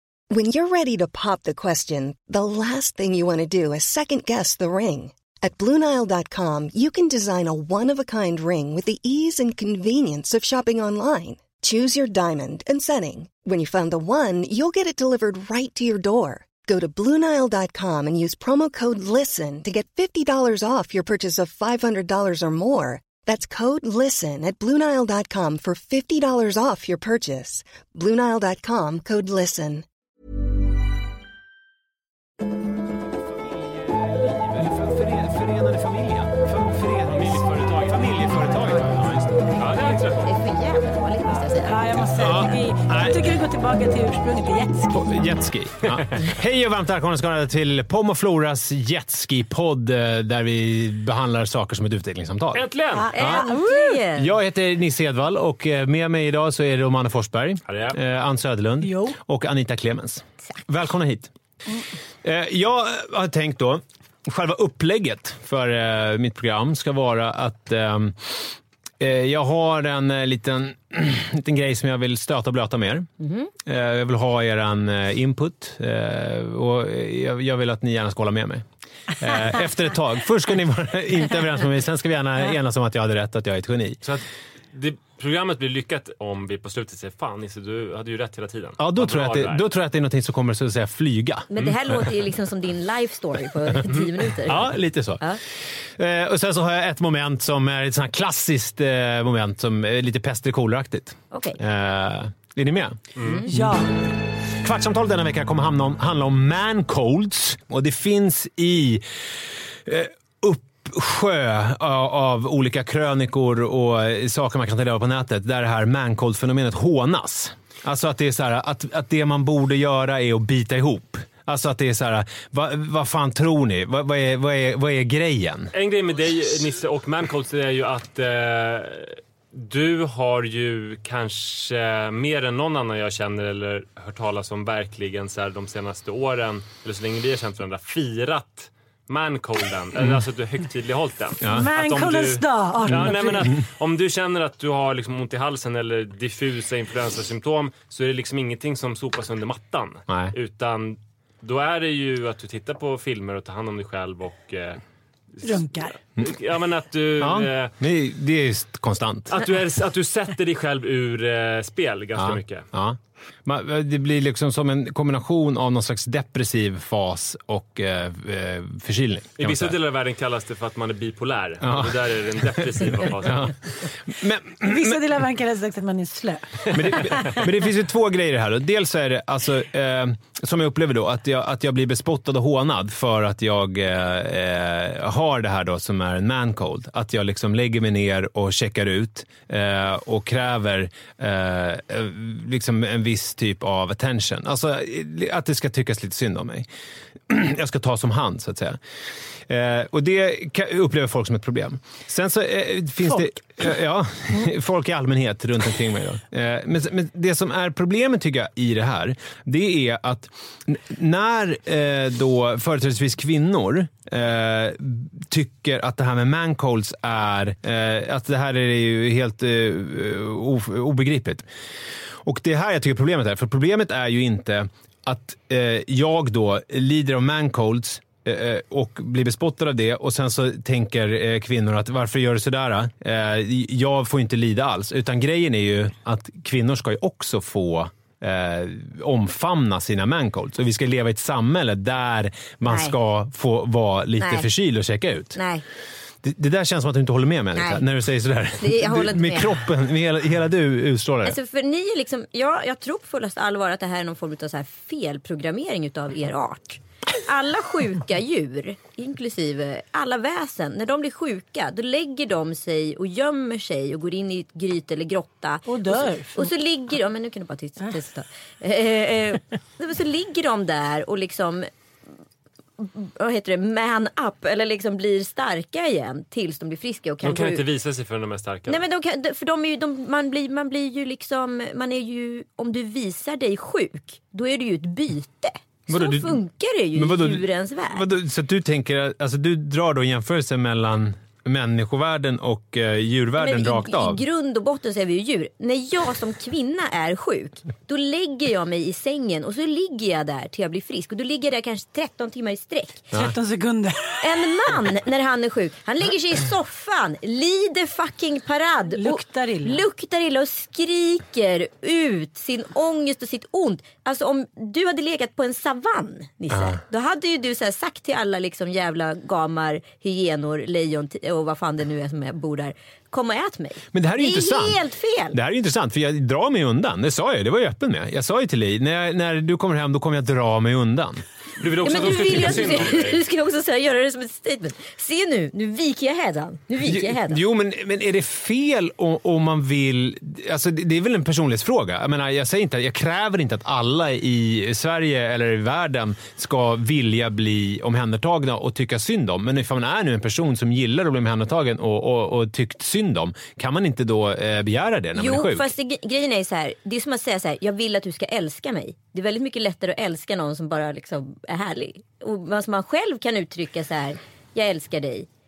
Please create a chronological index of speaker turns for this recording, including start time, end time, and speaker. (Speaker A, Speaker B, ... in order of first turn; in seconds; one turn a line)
Speaker A: 0.3-29.8
Speaker B: 33.9-39.8
Speaker C: 37.1-38.7
Speaker C: 39.5-40.3
Speaker D: 40.2-42.6
Speaker E: 41.4-45.0
Speaker B: 42.1-43.4
Speaker B: 44.9-52.7
Speaker C: 46.0-46.3
Speaker C: 52.5-53.1
Speaker E: 52.9-54.0
Speaker D: 53.1-54.4
Speaker B: 53.2-53.5
Speaker B: 54.1-61.3
Speaker C: 57.7-58.0
Speaker E: 58.8-59.1
Speaker B: 62.2-73.1
Speaker D: 73.2-73.5
Speaker B: 73.6-78.6
Speaker B: 79.2-84.0
Speaker C: 84.0-89.6
Speaker B: 88.8-92.1
Speaker D: 91.5-95.4
Speaker B: 94.4-95.3
Speaker B: 96.0-103.0
Speaker D: 101.3-101.6
Speaker C: 103.2-103.5
Speaker D: 103.2-103.5
Speaker E: 103.5-103.9
Speaker B: 103.5-103.8
Speaker B: 104.6-109.0
Speaker B: 109.8-125.7
Speaker C: 125.7-154.8
Speaker B: 141.4-141.7
Speaker E: 141.5-143.4
Speaker B: 150.1-150.3
Speaker C: 155.3-157.7
Speaker E: 155.4-156.0
Speaker B: 157.2-159.4
Speaker C: 159.3-162.7
Speaker B: 162.2-169.8
Speaker C: 169.3-173.5
Speaker B: 171.6-175.2
Speaker E: 174.6-177.4
Speaker B: 176.7-196.7
Speaker C: 176.8-177.0
Speaker B: 197.3-198.8
Speaker B: 199.5-221.4
Speaker B: 222.2-245.4
Speaker D: 242.6-243.0
Speaker D: 244.2-244.5
Speaker D: 245.3-245.6
Speaker B: 246.2-251.4
Speaker D: 247.5-247.8
Speaker D: 248.6-249.6
Speaker D: 251.2-271.7
Speaker E: 265.6-266.5
Speaker D: 272.8-277.6
Speaker C: 277.2-278.8
Speaker D: 278.7-288.1
Speaker B: 285.9-294.2
Speaker D: 293.4-303.1
Speaker E: 303.1-304.3
Speaker D: 304.2-325.4
Speaker E: 308.9-309.8
Speaker B: 316.5-316.8
Speaker B: 323.9-331.2
Speaker C: 331.6-333.2
Speaker D: 331.8-337.4
Speaker B: 336.8-355.7
Speaker D: 355.1-365.3